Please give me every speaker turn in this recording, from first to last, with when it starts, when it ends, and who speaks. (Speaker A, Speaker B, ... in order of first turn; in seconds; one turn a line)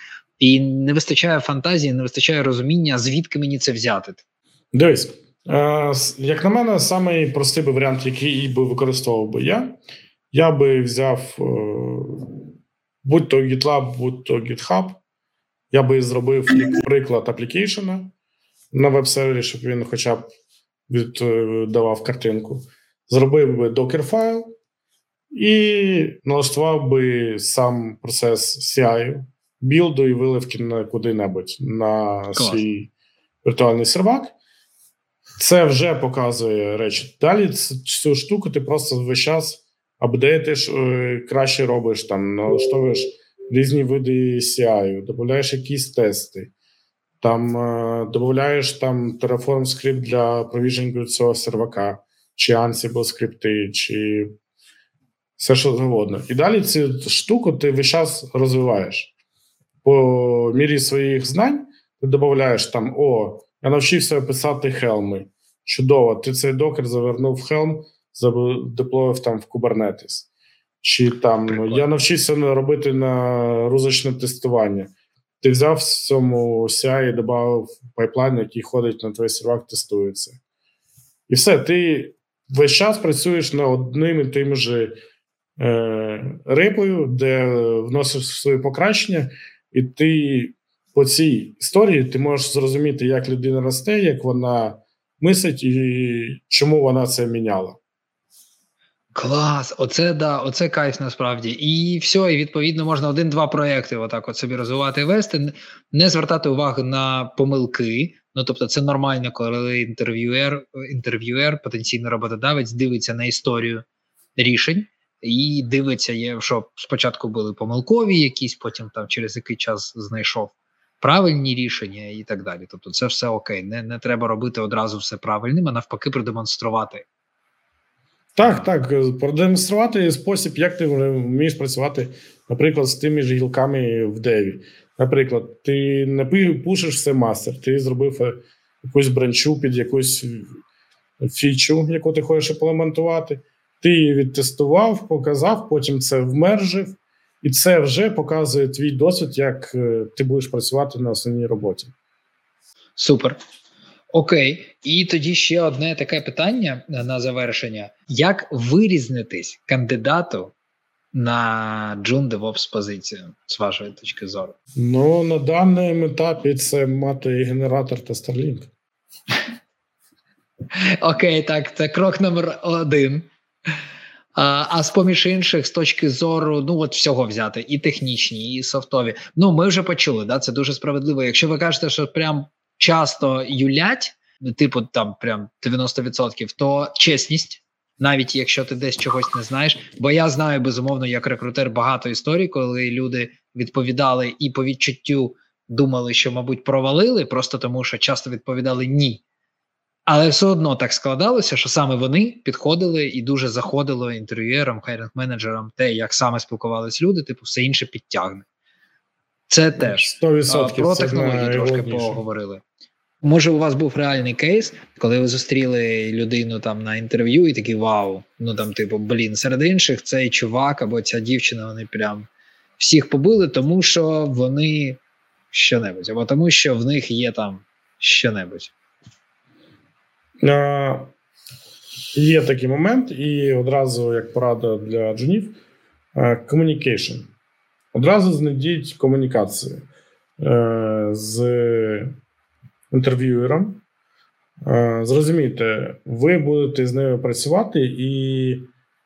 Speaker A: 0.4-4.2
Speaker B: 4.7-9.8
Speaker B: 10.3-12.5
Speaker B: 13.0-15.0
Speaker B: 15.7-18.1
Speaker B: 18.7-20.3
Speaker B: 20.9-24.5
Speaker B: 25.3-32.9
Speaker A: 32.3-32.6
Speaker B: 33.4-34.3
Speaker B: 35.4-46.5
Speaker B: 47.2-54.3
Speaker B: 55.4-59.1
Speaker B: 59.8-70.3
Speaker B: 70.8-80.4
Speaker A: 71.5-71.8
Speaker B: 81.3-85.0
Speaker B: 85.6-97.8
Speaker A: 99.1-113.8
Speaker A: 114.3-127.0
Speaker B: 128.3-140.6
Speaker A: 128.4-128.7
Speaker B: 141.2-151.9
Speaker A: 153.0-153.4
Speaker A: 154.1-160.5
Speaker A: 161.1-164.5
Speaker B: 164.8-168.7
Speaker A: 170.8-173.3
Speaker A: 174.3-199.2
Speaker A: 200.1-208.4
Speaker A: 209.5-212.6
Speaker B: 209.8-212.2
Speaker A: 213.2-222.3
Speaker A: 222.8-225.0
Speaker A: 225.5-228.7
Speaker B: 230.4-231.1
Speaker B: 232.1-235.6
Speaker B: 236.1-237.3
Speaker B: 237.9-239.8
Speaker B: 240.4-242.1
Speaker B: 242.9-243.8
Speaker B: 244.6-248.7